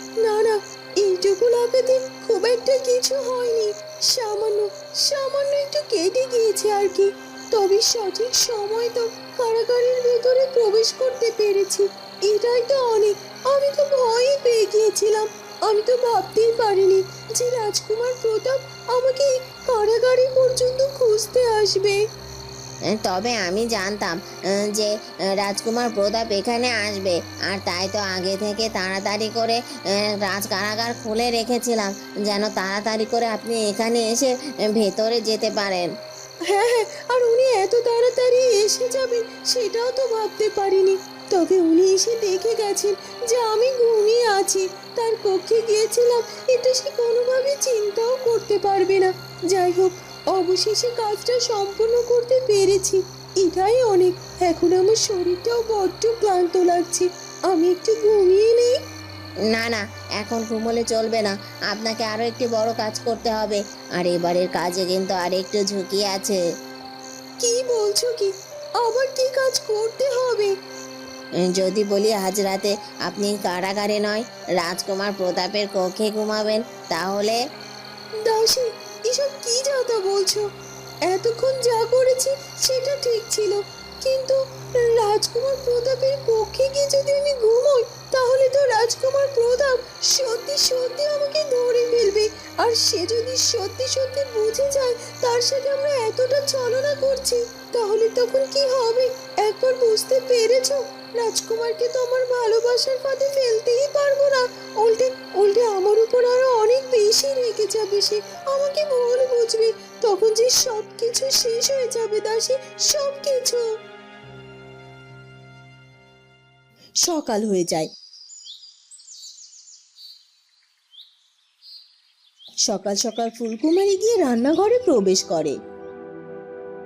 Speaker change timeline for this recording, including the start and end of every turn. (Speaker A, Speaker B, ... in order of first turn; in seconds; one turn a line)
Speaker A: 0.2-22.0
Speaker B: 23.0-24.1
Speaker B: 24.7-35.9
Speaker A: 36.5-58.8
Speaker B: 59.5-66.4
Speaker A: 67.4-70.5
Speaker B: 71.5-77.4
Speaker A: 78.2-80.5
Speaker A: 81.1-113.6
Speaker A: 117.0-117.9
Speaker A: 122.7-125.6